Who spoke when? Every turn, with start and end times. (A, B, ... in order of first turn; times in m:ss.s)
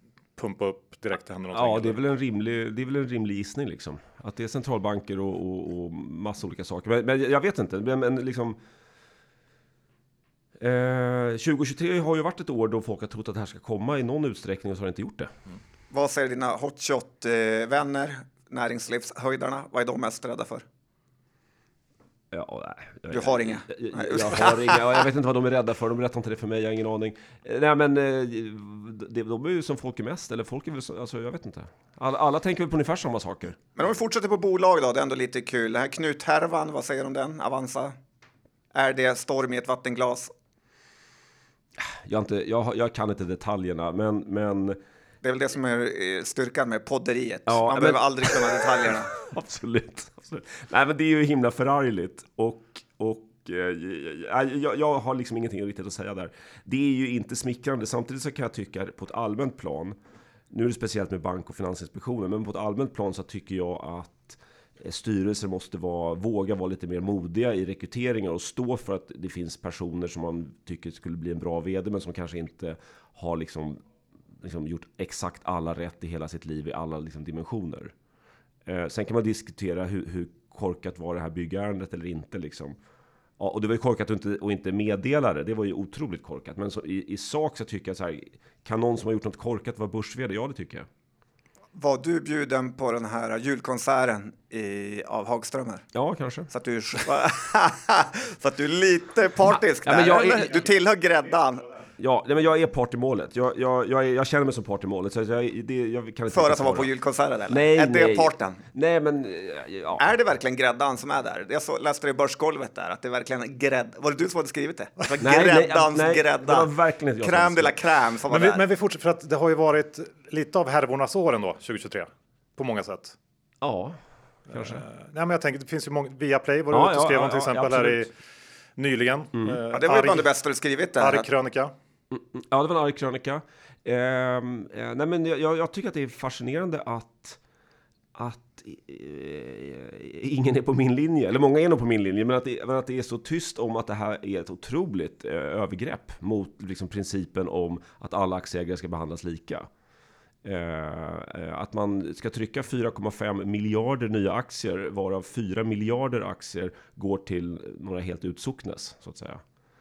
0:00.4-0:02.0 A
0:01.5-0:08.6 B
0:10.6-0:15.3 B
0:15.9-0:20.6 C
0:22.3-0:33.6 B
0:23.1-0:25.0 C
0:33.8-0:38.0 C
0:38.7-0:40.3 C
0:41.8-0:44.8 B
0:45.2-0:49.1 C
0:47.5-1:00.0 B
1:00.5-1:13.8 B
1:14.4-1:17.9 B
1:18.6-1:22.8 B
1:23.4-1:30.9 B
1:31.7-1:35.8 C
1:35.9-1:36.5 B
1:36.5-1:41.7 C
1:39.8-1:40.6 B
1:42.0-1:46.9 B
1:46.3-1:48.6 C
1:47.5-1:50.0 B
1:50.0-1:56.7 C
1:55.2-1:57.7 B
1:57.2-1:58.7 C
1:58.3-2:03.2 A
2:03.6-2:04.8 B
2:04.5-2:08.1 A
2:06.7-2:08.0 B
2:08.8-2:10.3 A
2:09.7-2:11.2 C
2:11.0-2:11.7 A
2:12.1-2:17.4 B
2:18.1-2:29.7 B
2:30.4-2:39.4 B